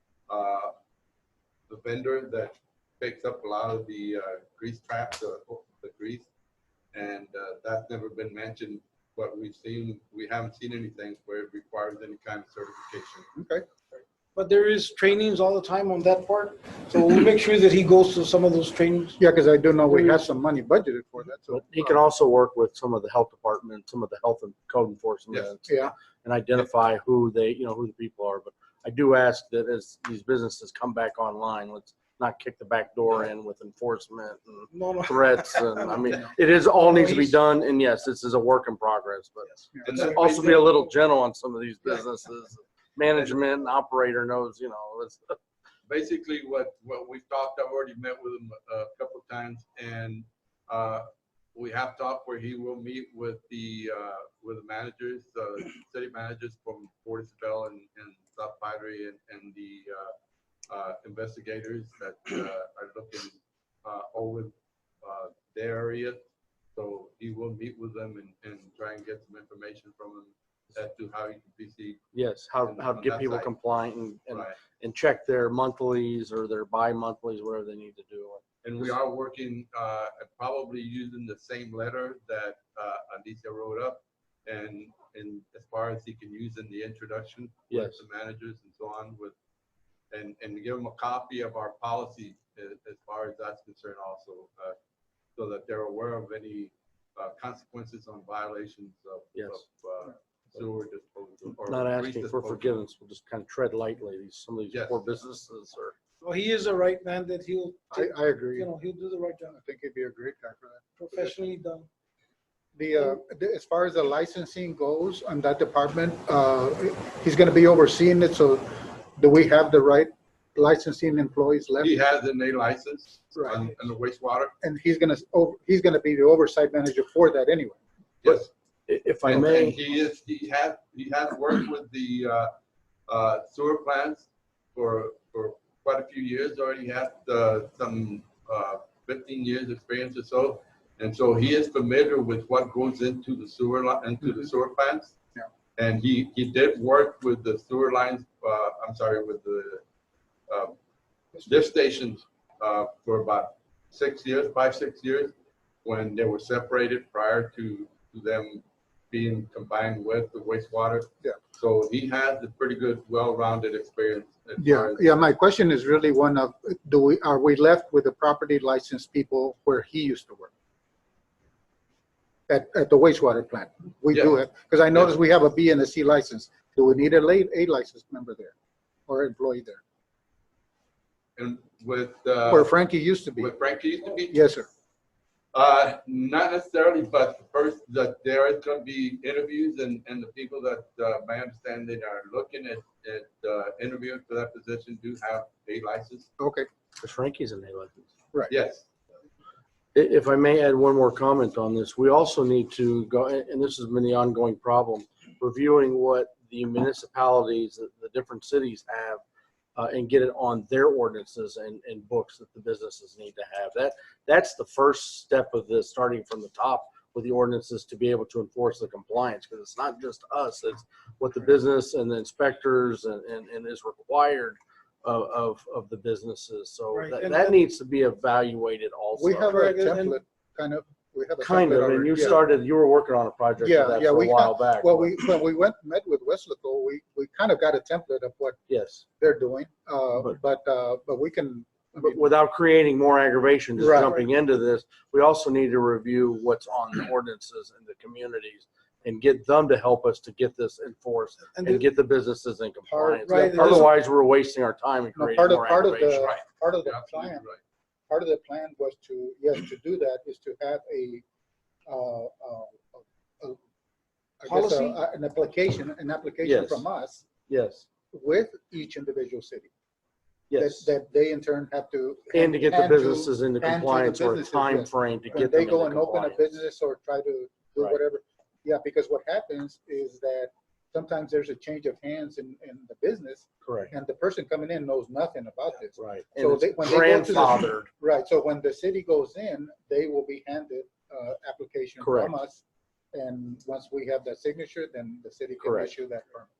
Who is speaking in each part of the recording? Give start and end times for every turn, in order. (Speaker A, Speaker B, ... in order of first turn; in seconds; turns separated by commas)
Speaker A: 0.3-0.7, Speaker A: 1.7-6.3, Speaker A: 6.9-13.3, Speaker B: 13.3-13.6, Speaker C: 14.3-19.2, Speaker B: 19.2-22.0, Speaker C: 19.9-20.3, Speaker D: 21.5-45.4, Speaker B: 25.6-25.9, Speaker C: 34.7-37.4, Speaker C: 39.5-40.7, Speaker B: 39.7-40.0, Speaker A: 39.8-40.8, Speaker A: 45.9-60.1, Speaker A: 60.7-66.2, Speaker A: 66.7-72.0, Speaker D: 72.1-78.9, Speaker A: 72.6-73.5, Speaker A: 74.3-74.6, Speaker A: 78.6-89.3, Speaker D: 87.7-88.0, Speaker A: 90.1-94.8, Speaker A: 95.3-102.8, Speaker D: 99.3-99.6, Speaker D: 101.7-105.9, Speaker A: 104.7-105.2, Speaker C: 106.2-109.6, Speaker B: 107.9-108.7, Speaker B: 109.5-111.3, Speaker C: 111.0-111.9, Speaker B: 112.8-122.0, Speaker A: 121.8-124.5, Speaker B: 124.6-127.8, Speaker A: 128.2-128.5, Speaker D: 128.2-129.8, Speaker A: 129.2-132.5, Speaker A: 133.1-145.1, Speaker A: 145.8-149.8, Speaker A: 150.5-150.8, Speaker A: 151.4-155.3, Speaker A: 155.8-165.0, Speaker B: 164.6-170.5, Speaker B: 172.5-178.5, Speaker B: 179.1-179.8, Speaker A: 181.4-182.7, Speaker B: 182.5-183.5, Speaker A: 183.4-184.4, Speaker B: 184.3-184.7, Speaker A: 185.5-196.3, Speaker B: 196.4-196.7, Speaker D: 197.0-198.1, Speaker A: 198.5-198.9, Speaker D: 199.9-209.2, Speaker D: 209.8-229.6, Speaker C: 226.9-227.6, Speaker B: 229.1-232.4, Speaker C: 229.5-230.2, Speaker D: 231.4-235.1, Speaker B: 233.6-238.6, Speaker D: 238.7-239.0, Speaker B: 239.2-242.2, Speaker D: 242.0-256.3, Speaker B: 243.8-244.2, Speaker C: 243.8-244.2, Speaker C: 251.5-251.8, Speaker B: 252.9-253.9, Speaker C: 253.2-253.9, Speaker B: 255.1-257.4, Speaker A: 256.1-257.6, Speaker B: 258.1-261.2, Speaker B: 261.9-263.6, Speaker B: 264.4-267.2, Speaker C: 264.5-265.0, Speaker D: 266.4-266.9, Speaker D: 267.5-267.9, Speaker B: 268.1-269.7, Speaker D: 270.5-270.9, Speaker B: 270.5-296.5, Speaker D: 272.3-276.5, Speaker D: 283.6-283.9, Speaker D: 286.0-287.9, Speaker D: 292.0-292.3, Speaker D: 295.6-295.9